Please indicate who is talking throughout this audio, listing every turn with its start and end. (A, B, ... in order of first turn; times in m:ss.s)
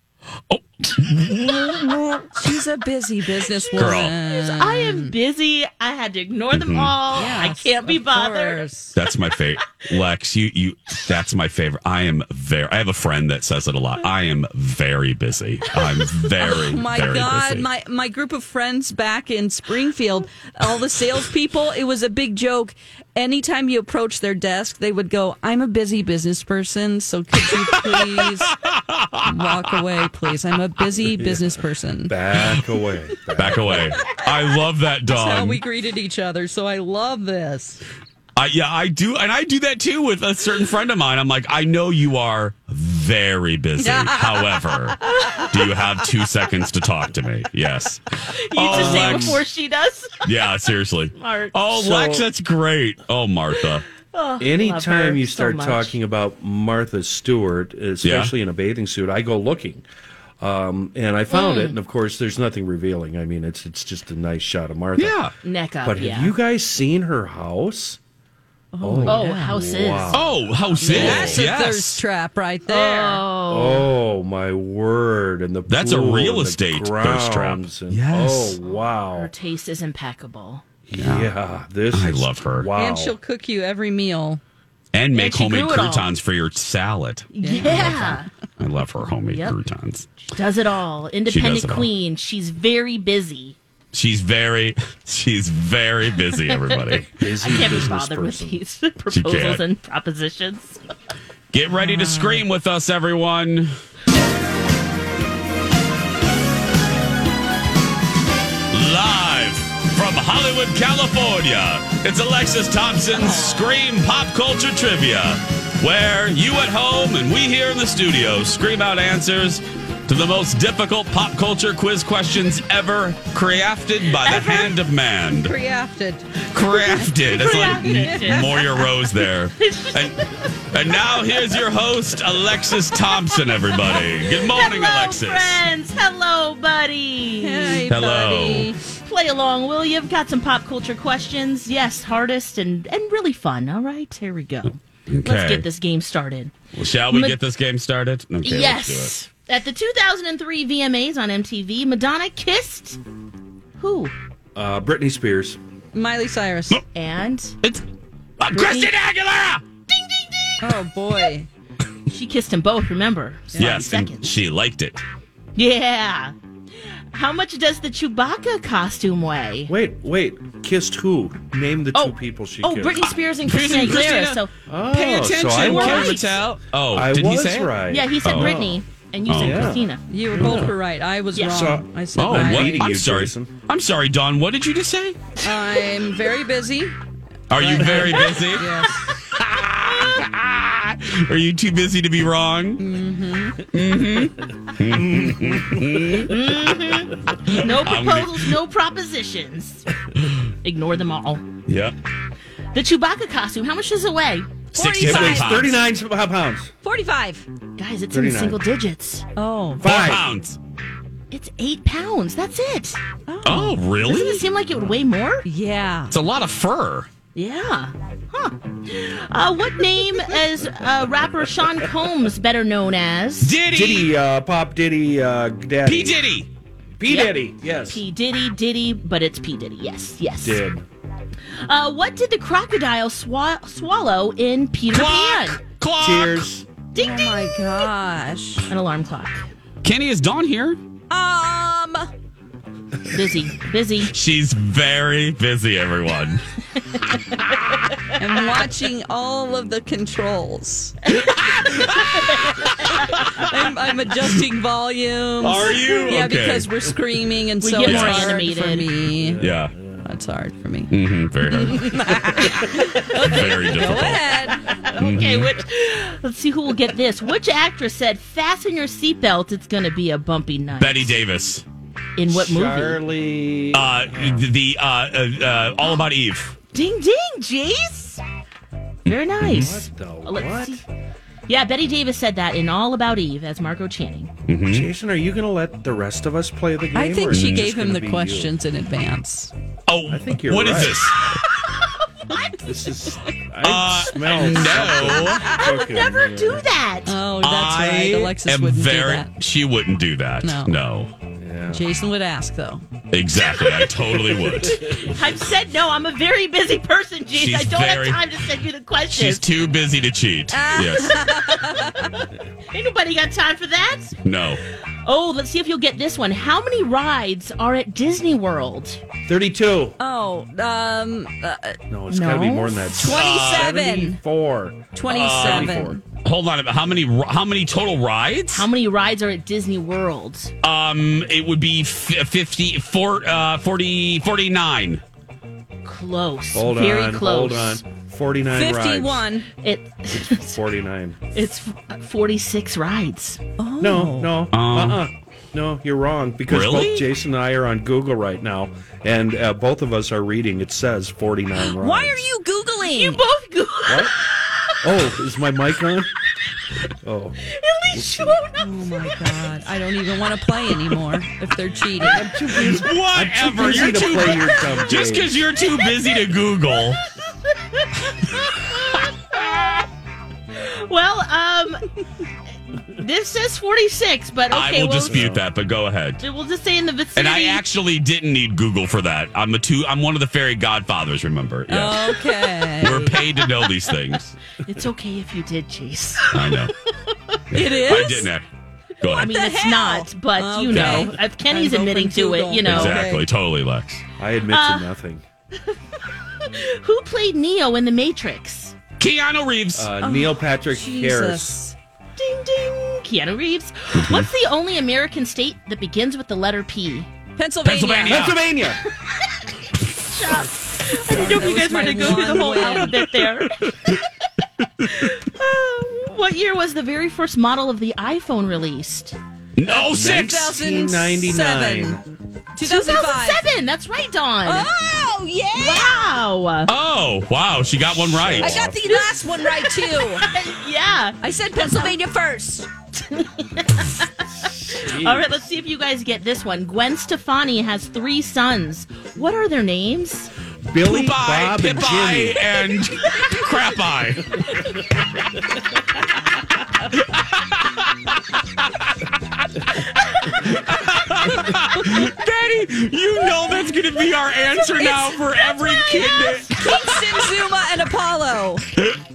0:00.5-0:02.3 A
0:02.3-0:05.2 B
0:03.7-0:08.6 C
0:03.8-0:04.2 A
0:06.5-0:07.0 A
0:07.1-0:09.0 B
0:09.0-0:17.7 A
0:15.7-0:28.6 B
0:28.6-0:29.1 A
0:29.2-0:32.3 B
0:31.2-0:31.5 D
0:32.0-0:33.9 D
0:33.4-0:35.6 A
0:33.9-0:34.2 B
0:35.0-0:37.8 B
0:38.4-0:45.0 A
0:43.8-0:45.5 B
0:45.1-0:45.8 C
0:45.5-0:48.0 A
0:48.3-0:51.6 C
0:48.5-0:49.4 A
0:48.7-0:49.4 D
0:50.2-0:53.9 A
0:51.7-0:52.3 D
0:53.5-0:56.0 C
0:54.4-0:59.8 D
0:58.0-0:58.3 A
1:00.4-1:05.2 D
1:01.3-1:01.8 C
1:05.0-1:05.3 A
1:05.4-1:06.4 C
1:05.8-1:08.0 D
1:08.7-1:09.5 B
1:08.8-1:10.3 D
1:09.1-1:10.3 C
1:10.1-1:12.0 A
1:10.8-1:13.3 B
1:10.9-1:11.4 D
1:12.7-1:13.9 C
1:13.5-1:19.3 D
1:15.7-1:18.6 A
1:18.6-1:20.6 C
1:20.9-1:23.2 D
1:21.0-1:21.3 A
1:21.9-1:22.7 A
1:22.7-1:24.4 B
1:24.9-1:27.3 A
1:25.1-1:26.2 C
1:27.3-1:28.3 C
1:27.4-1:28.3 B
1:28.6-1:30.1 A
1:29.3-1:29.6 C
1:30.2-1:33.6 C
1:31.3-1:31.9 A
1:33.9-1:37.1 A
1:36.5-1:40.8 C
1:37.0-1:38.6 D
1:39.1-1:39.6 A
1:41.5-1:43.7 A
1:41.9-1:42.4 B
1:48.7-2:05.5 A
1:53.3-1:53.6 C
2:04.2-2:04.8 B
2:05.3-2:06.4 B
2:06.5-2:10.2 A
2:06.6-2:11.6 C
2:07.7-2:08.4 B
2:10.7-2:15.6 A
2:12.8-2:17.9 C
2:17.4-2:18.8 B
2:17.8-2:18.7 A
2:19.0-2:27.4 C
2:25.1-2:25.7 A
2:26.7-2:29.1 A
2:28.4-2:33.0 C
2:33.8-2:34.1 C
2:34.6-2:35.6 D
2:35.9-2:36.8 B
2:36.9-2:37.6 C
2:38.4-2:39.6 A
2:38.4-2:39.0 C
2:40.0-2:40.5 C
2:40.6-2:41.5 B
2:42.1-2:44.4 C
2:43.5-2:43.8 B
2:43.6-2:45.0 A
2:45.6-2:46.3 C
2:47.1-2:49.7 C
2:49.7-2:53.1 D
2:51.9-2:54.5 C
2:53.4-2:58.5 A
2:54.7-2:56.2 D
2:55.4-2:56.4 C
2:56.9-2:58.8 D
2:57.8-3:00.0 C
2:59.3-2:59.7 A
2:59.4-3:00.7 D
3:00.1-3:02.9 B
3:01.3-3:01.7 C
3:01.5-3:03.5 D
3:02.2-3:05.2 A
3:05.4-3:07.0 B
3:07.5-3:08.6 A
3:07.6-3:09.0 B
3:07.9-3:08.9 C
3:09.2-3:12.8 A
3:12.8-3:13.7 B
3:13.7-3:16.4 A
3:15.2-3:15.8 D
3:16.1-3:19.9 C
3:17.4-3:18.6 A
3:20.6-3:21.5 C
3:21.7-3:22.0 A
3:22.7-3:24.7 C
3:24.7-3:25.7 B
3:24.8-3:25.8 A
3:25.0-3:26.7 D
3:26.8-3:27.5 B
3:27.8-3:29.2 C
3:28.1-3:28.6 D
3:29.4-3:30.0 B
3:29.8-3:30.3 D
3:29.8-3:30.6 A
3:31.3-3:33.0 C
3:33.3-3:33.8 B
3:33.4-3:34.4 A
3:34.0-3:35.4 C
3:35.4-3:36.2 B
3:36.1-3:37.1 A
3:37.4-3:43.6 C
3:43.4-3:44.1 A
3:43.7-3:46.2 D
3:45.9-3:46.5 A
3:47.0-3:48.0 D
3:47.1-3:50.6 C
3:50.4-3:50.9 D
3:51.7-3:55.6 C
3:54.9-3:56.5 A
3:56.0-3:56.6 D
3:56.9-3:57.9 C
3:57.0-3:58.7 B
3:58.7-3:59.4 C
3:59.8-4:00.8 A
4:01.1-4:02.1 B
4:03.1-4:04.1 C
4:04.1-4:06.4 A
4:06.9-4:07.4 C
4:08.2-4:11.0 B
4:11.2-4:13.5 A
4:12.2-4:13.0 C
4:13.4-4:19.4 B
4:15.4-4:16.7 A
4:17.6-4:18.9 C
4:17.8-4:18.3 A
4:19.2-4:20.0 D
4:19.4-4:19.7 A
4:20.0-4:21.0 B
4:20.9-4:22.5 A
4:21.5-4:24.7 B
4:22.4-4:31.2 C
4:23.2-4:24.2 A
4:25.0-4:25.5 A
4:30.8-4:31.6 A
4:32.2-4:33.0 C
4:32.3-4:34.5 D
4:33.7-4:36.6 A
4:35.8-4:36.1 C
4:36.7-4:38.2 C
4:39.0-4:39.8 A
4:39.1-4:40.8 C
4:39.5-4:40.8 D
4:41.5-4:44.3 C
4:44.5-4:44.9 A
4:44.7-4:48.6 D
4:46.9-4:49.5 B
4:47.3-4:47.7 A
4:49.9-4:51.2 A
4:50.1-4:51.1 D
4:51.7-4:52.6 C
4:52.6-4:56.6 D
4:53.6-4:55.5 A
4:54.4-4:55.8 B
4:54.7-4:57.2 C
4:57.1-4:59.3 B
4:57.4-5:01.1 A
5:00.4-5:00.7 B
5:01.4-5:01.9 D
5:01.7-5:02.9 B
5:03.1-5:04.8 A
5:03.3-5:09.4 C
5:07.3-5:08.2 A
5:09.1-5:11.1 A
5:10.5-5:12.2 B
5:10.8-5:19.0 C
5:14.2-5:14.6 A
5:19.3-5:20.0 D
5:20.0-5:21.8 B
5:21.9-5:26.0 D
5:22.1-5:23.0 C
5:23.0-5:24.2 B
5:23.1-5:23.7 A
5:24.9-5:26.0 B
5:25.1-5:28.7 A
5:28.5-5:30.5 C
5:30.6-5:35.0 A
5:35.8-5:37.8 C
5:36.5-5:39.3 D
5:38.5-5:39.5 B
5:39.6-5:40.6 C
5:40.1-5:41.2 D
5:41.3-5:43.4 C
5:43.6-5:44.4 B
5:43.8-5:52.2 D
5:44.5-5:45.0 A
5:46.5-5:47.1 A
5:51.6-5:53.3 B
5:52.8-5:55.1 C
5:53.9-5:54.1 D
5:54.8-5:56.1 D
5:57.0-5:57.4 D
5:57.4-5:59.4 C
5:57.9-5:58.4 D
5:58.6-6:02.5 B
6:02.0-6:05.4 D
6:02.6-6:07.0 A
6:03.6-6:05.0 C
6:05.5-6:09.9 C
6:10.5-6:12.0 C
6:12.8-6:15.3 C
6:14.5-6:16.2 A
6:15.1-6:15.4 D
6:16.2-6:17.7 C
6:17.2-6:24.3 A
6:21.7-6:23.2 B
6:23.2-6:23.8 C
6:24.6-6:28.2 C
6:26.3-6:26.7 A
6:27.5-6:28.5 A
6:27.5-6:28.3 B
6:29.0-6:29.4 A
6:29.1-6:33.0 C
6:29.1-6:33.3 B
6:30.7-6:31.1 A
6:32.7-6:34.0 A
6:34.2-6:35.2 D
6:34.5-6:34.9 C
6:35.6-6:38.8 C
6:39.0-6:39.9 A
6:39.8-6:41.6 D
6:40.0-6:41.8 B
6:42.2-6:47.1 C
6:44.0-6:44.3 A
6:47.4-6:48.4 B
6:47.6-6:48.4 A
6:48.1-6:48.8 D
6:48.9-6:59.2 C
6:51.0-6:53.0 B
6:59.6-7:00.4 A
6:59.9-7:02.0 D
7:00.2-7:03.4 B
7:02.6-7:04.7 C
7:04.5-7:06.2 B
7:05.6-7:06.7 C
7:06.7-7:08.6 A
7:08.0-7:08.8 D
7:08.4-7:10.3 B
7:08.8-7:11.9 C
7:11.2-7:12.7 B
7:13.0-7:20.3 C
7:14.4-7:15.3 D
7:20.7-7:22.4 D
7:20.8-7:25.4 A
7:27.0-7:28.9 A
7:30.0-7:30.4 C
7:30.4-7:36.6 A
7:34.6-7:35.2 B
7:35.3-7:37.0 C
7:35.8-7:38.7 B